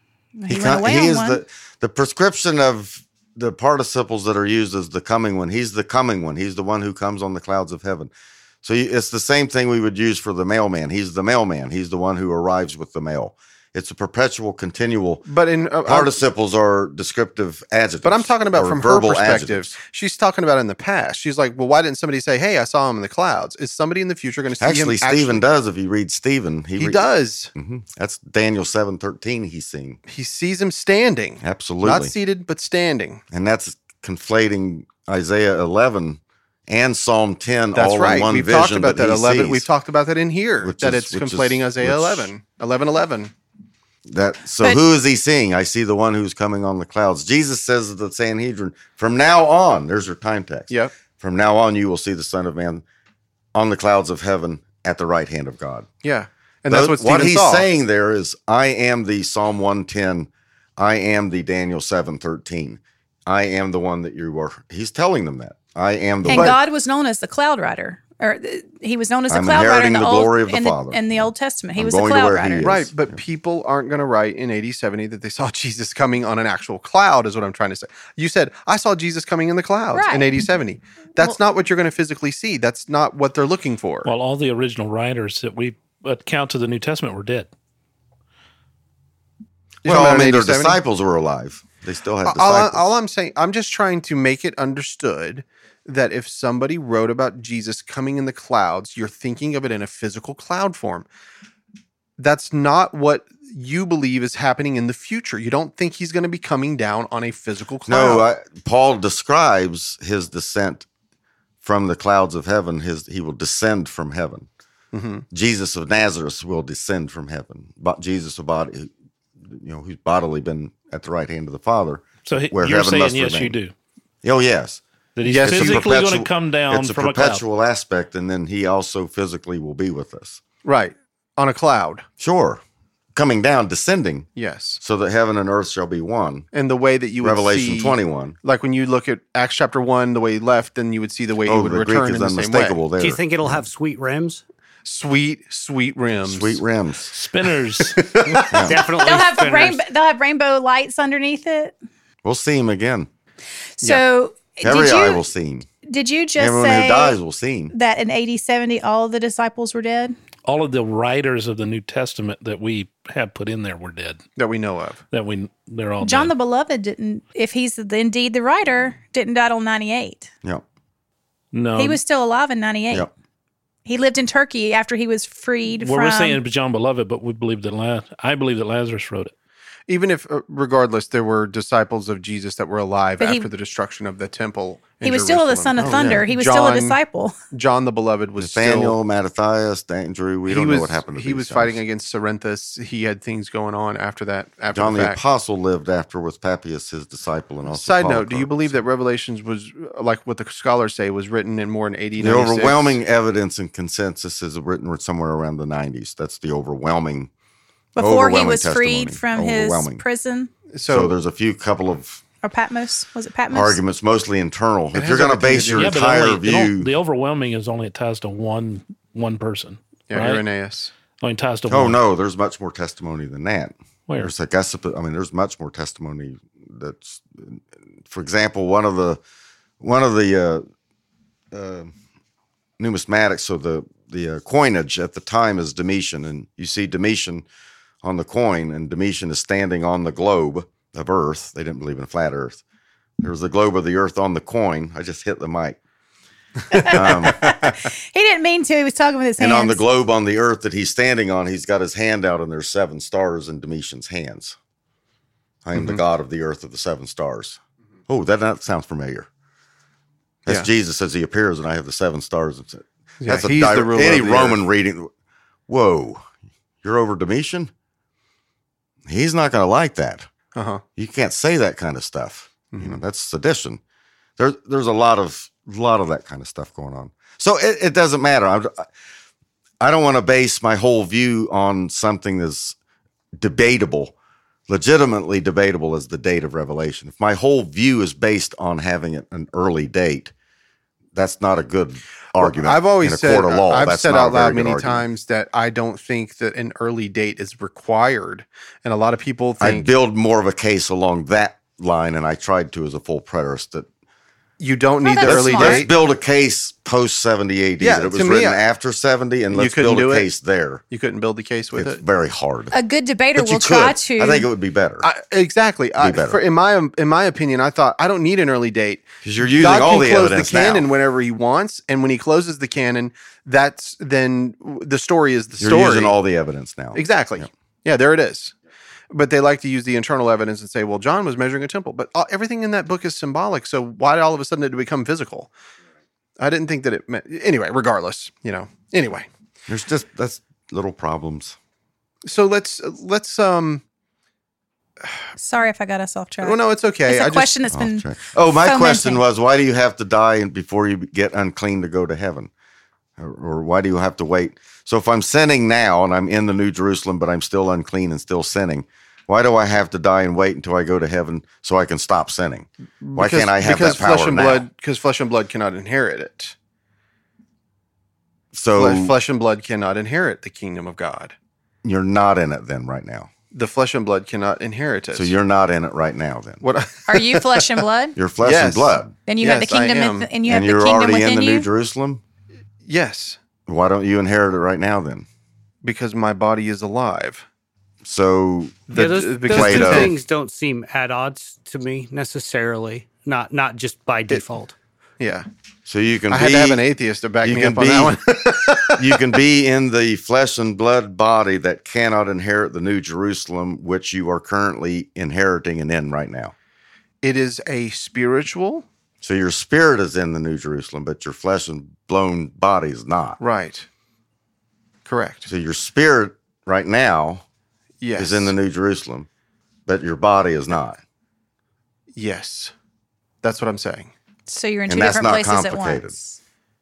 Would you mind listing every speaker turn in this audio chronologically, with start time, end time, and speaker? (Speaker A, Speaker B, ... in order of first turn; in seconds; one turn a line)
Speaker A: 0.4-1.4
Speaker B: 0.5-8.1
Speaker B: 8.6-15.2
Speaker C: 15.3-16.2
Speaker B: 15.8-19.7
Speaker C: 18.0-25.4
Speaker B: 24.6-30.0
Speaker C: 26.8-27.5
Speaker C: 30.1-33.2
Speaker B: 31.4-32.1
Speaker B: 33.3-39.7
Speaker C: 37.7-43.3
Speaker B: 40.6-42.3
Speaker B: 44.1-52.8
Speaker B: 53.5-55.9
Speaker C: 56.0-57.7
Speaker B: 56.7-66.6
Speaker A: 66.3-72.7
Speaker C: 66.3-66.6
Speaker B: 69.3-73.2
Speaker C: 72.6-84.1
Speaker A: 79.9-80.4
Speaker D: 84.0-87.5
Speaker C: 89.8-90.8
Speaker B: 89.8-92.9
Speaker C: 92.2-101.1
Speaker C: 102.2-108.3
Speaker B: 107.9-110.9
Speaker B: 111.6-114.5
Speaker C: 114.9-115.2
Speaker B: 115.3-118.9
Speaker B: 119.4-123.6
Speaker D: 122.2-123.7
Speaker B: 124.2-124.8
Speaker D: 125.2-127.4
Speaker C: 125.2-125.9
Speaker B: 125.4-130.4
Speaker C: 130.6-132.1
Speaker B: 132.2-132.6
Speaker B: 133.2-134.3
Speaker C: 134.4-134.8
Speaker B: 134.8-136.5
Speaker C: 136.5-142.8
Speaker B: 137.2-138.4
Speaker B: 141.4-143.6
Speaker E: 143.0-144.4
Speaker C: 144.8-146.6
Speaker B: 146.2-147.1
Speaker D: 147.1-148.2
Speaker C: 147.9-148.8
Speaker B: 148.3-148.8
Speaker E: 148.7-149.8
Speaker A: 149.0-151.7
Speaker B: 152.2-153.1
Speaker A: 153.8-155.2
Speaker B: 154.6-155.7
Speaker A: 155.8-157.2
Speaker B: 156.4-157.7
Speaker A: 157.7-160.2
Speaker D: 160.4-164.2
Speaker C: 164.4-165.0
Speaker D: 165.1-166.3
Speaker A: 166.0-170.3
Speaker D: 171.5-172.0
Speaker A: 171.8-173.1
Speaker A: 173.9-176.4
Speaker D: 175.8-179.3
Speaker C: 179.9-187.0
Speaker A: 183.2-183.5
Speaker A: 185.0-187.4
Speaker B: 185.8-186.2
Speaker C: 187.5-189.0
Speaker B: 188.4-191.8
Speaker C: 190.5-195.2
Speaker B: 194.7-198.8
Speaker C: 197.7-203.0
Speaker B: 202.2-207.3
Speaker A: 208.0-210.5
Speaker B: 208.0-210.0
Speaker C: 210.7-211.2
Speaker B: 210.9-212.2
Speaker A: 212.4-213.8
Speaker B: 213.5-216.9
Speaker C: 214.9-216.0
Speaker D: 215.8-220.5
Speaker C: 220.1-220.9
Speaker D: 221.2-222.0
Speaker B: 221.7-229.2
Speaker D: 224.1-224.3
Speaker B: 229.8-230.7
Speaker B: 231.5-231.9
Speaker B: 232.8-237.5
Speaker B: 238.0-242.6
Speaker B: 243.2-245.8
Speaker A: 246.7-249.8
Speaker B: 246.8-247.8
Speaker B: 249.4-254.6
Speaker B: 255.7-259.3
Speaker B: 260.5-265.1
Speaker C: 263.2-264.6
Speaker B: 265.7-266.2
Speaker B: 266.8-267.7
Speaker B: 269.1-270.3
Speaker C: 270.6-270.8
Speaker B: 271.0-273.8
Speaker C: 272.7-273.0
Speaker B: 274.4-278.9
Speaker B: 279.8-282.8
Speaker B: 283.4-284.1
Speaker B: 284.7-290.3
Speaker B: 291.1-295.1
Speaker C: 292.4-299.9
Speaker B: 299.6-303.9
Speaker C: 304.6-305.9
Speaker A: 305.0-305.9
Speaker B: 305.2-310.8
Speaker C: 307.8-308.6
Speaker C: 309.5-310.3
Speaker C: 310.9-312.0
Speaker B: 311.8-312.8
Speaker A: 312.7-314.5
Speaker B: 313.4-315.1
Speaker C: 315.0-326.1
Speaker B: 316.0-316.4
Speaker B: 319.2-320.9
Speaker B: 325.6-327.5
Speaker C: 326.9-328.5
Speaker C: 329.1-335.5
Speaker C: 336.4-339.3
Speaker B: 339.7-341.6
Speaker C: 342.3-343.8
Speaker A: 345.4-349.2
Speaker C: 346.4-347.5
Speaker B: 347.7-352.5
Speaker B: 353.2-364.6
Speaker C: 363.0-366.6
Speaker B: 368.5-369.1
Speaker C: 368.8-371.3
Speaker B: 371.8-373.3
Speaker C: 373.5-375.3
Speaker B: 375.1-376.6
Speaker C: 376.6-377.8
Speaker A: 377.1-378.2
Speaker B: 378.2-379.1
Speaker C: 378.4-380.3
Speaker A: 379.3-381.7
Speaker B: 380.5-382.2
Speaker C: 382.9-383.4
Speaker B: 383.7-385.3
Speaker C: 385.8-387.4
Speaker B: 388.0-388.9
Speaker C: 388.9-390.1
Speaker E: 388.9-394.8
Speaker B: 389.4-390.1
Speaker C: 395.2-395.5
Speaker B: 395.9-396.9
Speaker C: 396.3-399.3
Speaker B: 397.4-398.2
Speaker B: 398.9-406.5
Speaker C: 407.2-408.9
Speaker B: 409.2-413.4
Speaker C: 413.4-413.9
Speaker C: 415.1-415.5
Speaker B: 415.5-417.4
Speaker C: 418.0-418.5
Speaker B: 418.2-419.3
Speaker B: 419.9-421.0
Speaker C: 422.2-422.7
Speaker C: 423.4-424.1
Speaker A: 424.5-426.4
Speaker B: 424.9-426.1